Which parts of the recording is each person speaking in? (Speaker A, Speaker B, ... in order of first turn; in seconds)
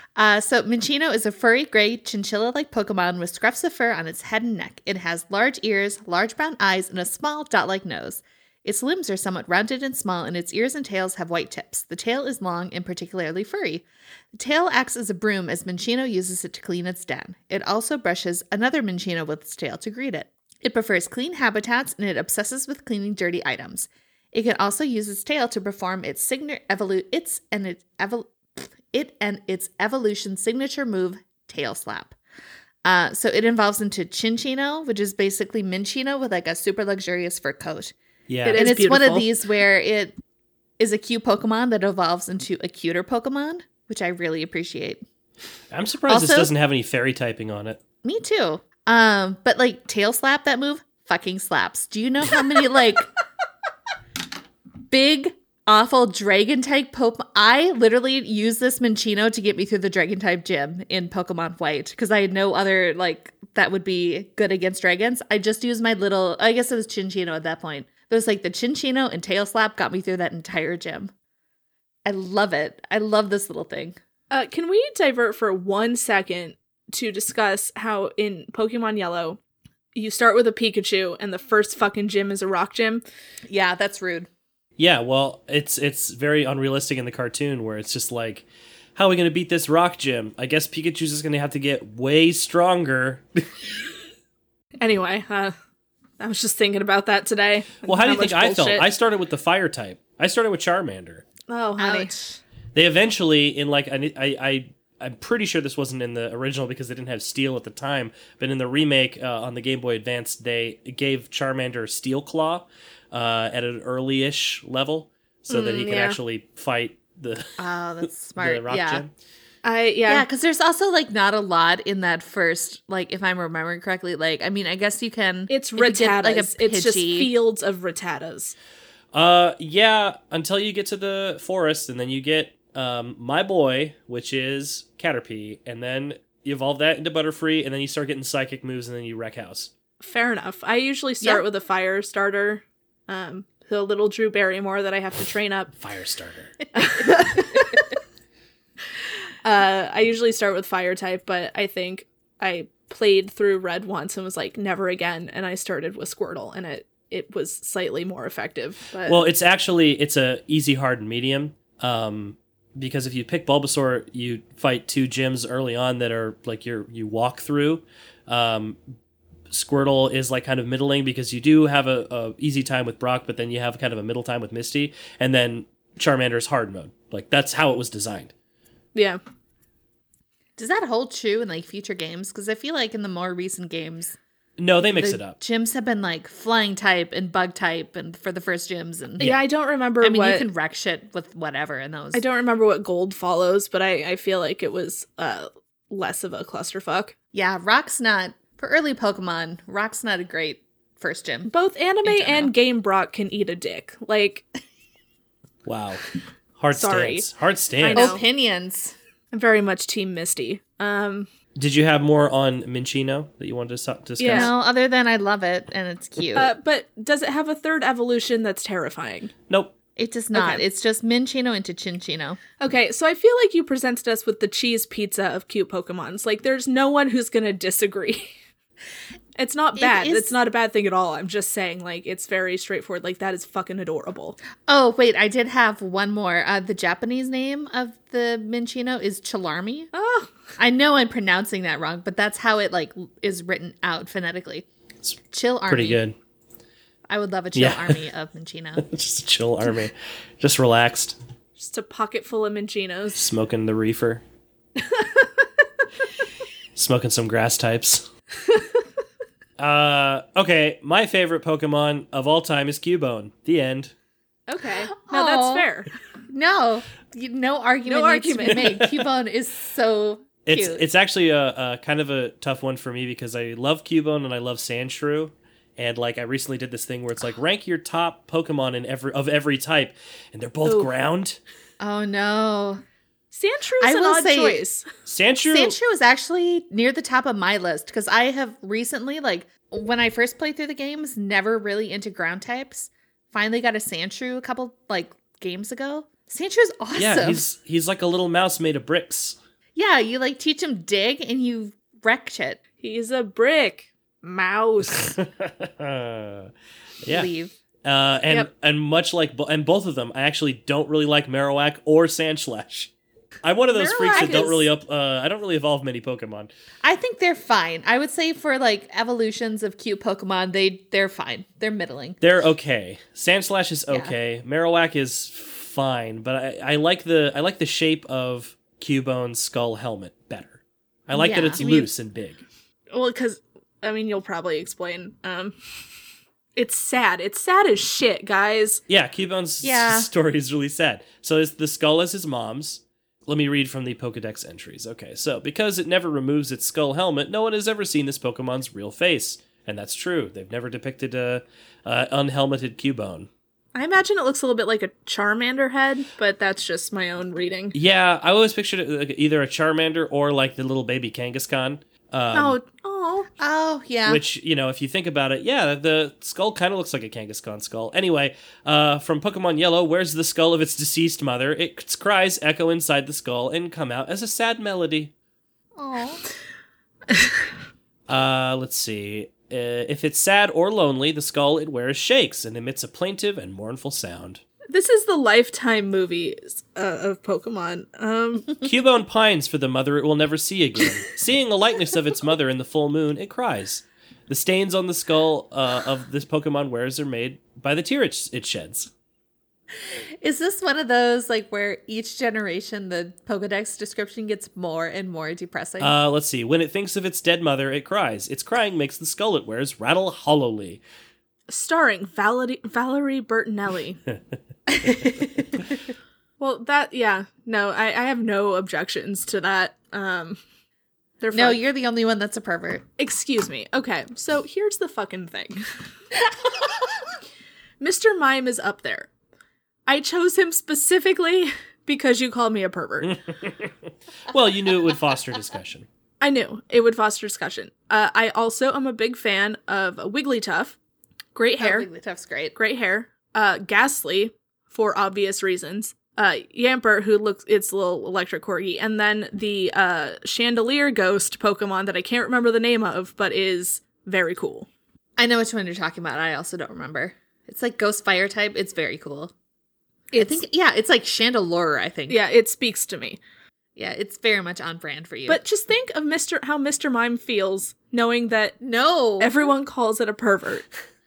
Speaker A: 0.1-32.1, 32.8-37.9, 38.5-40.2, 40.8-45.0, 46.1-46.5, 48.0-53.1, 54.9-71.1, 72.0-74.0, 83.5-84.3, 101.8-102.4, 117.6-119.0, 120.1-127.3, 180.6-184.2, 184.8-189.3, 190.0-192.2, 197.3-201.5, 202.0-202.5, 207.9-208.9, 214.3-216.5, 220.0-222.4, 229.8-230.3, 234.7-239.9, 240.6-244.7, 245.3-246.0, 247.1-248.8, 264.9-265.7, 266.3-270.8, 281.8-282.8, 283.8-284.6, 285.5-297.4, 299.7-302.6, 307.1-307.5, 314.1-314.4, 316.8-322.2, 331.1-331.7, 339.6-340.1, 363.4-364.2, 375.8-376.2, 399.8-405.9, 414.7-415.5, 421.3-422.8, 441.6-442.5, 455.2-459.3, 460.1-462.2, 463.8-465.4, 468.6-469.5
Speaker B: 38.3-38.7, 45.7-47.8, 84.8-93.5, 97.8-101.2, 102.7-117.6, 118.2-119.1, 129.1-139.7, 145.8-146.6, 159.1-168.8, 169.5-178.3, 184.6-185.4, 205.6-206.0, 206.6-208.2, 211.6-214.5, 219.5-219.7, 245.7-246.1, 247.5-248.0, 248.8-251.2, 253.1-254.2, 256.8-258.1, 259.6-263.9, 270.4-281.4, 285.0-285.8, 296.9-299.4, 304.9-306.5, 307.0-307.3, 307.8-312.9, 313.4-316.5, 322.2-332.4, 338.9-353.3, 357.7-362.6, 364.1-375.1, 378.1-384.4, 388.6-398.9, 405.8-410.8, 433.0-433.7, 434.3-435.9
Speaker C: 38.4-39.3, 74.3-79.4, 79.9-83.0, 94.8-95.5, 96.2-98.8, 101.5-102.1, 115.5-116.2, 119.6-120.2, 125.5-128.5, 140.0-145.7, 146.7-147.8, 149.4-159.2, 178.9-179.2, 189.2-190.5, 192.1-197.1, 201.4-204.4, 206.7-207.2, 207.8-208.2, 209.3-211.3, 214.2-214.5, 216.3-219.3, 220.3-220.6, 222.6-228.3, 229.3-234.4, 239.9-240.3, 251.6-253.2, 254.9-255.2, 264.5-265.9, 267.9-268.8, 280.6-280.9, 283.3-284.9, 302.8-305.1, 313.7-314.7, 331.6-331.9, 332.9-335.5, 336.6-338.8, 353.7-357.7, 362.3-363.3, 384.7-388.5, 411.5-414.0, 416.4-420.4, 421.2-421.6, 423.0-425.6, 427.8-429.1, 429.9-433.2, 436.2-440.8, 441.3-441.9, 442.5-454.7, 460.1-460.4, 462.1-463.2, 465.3-468.6, 469.2-470.6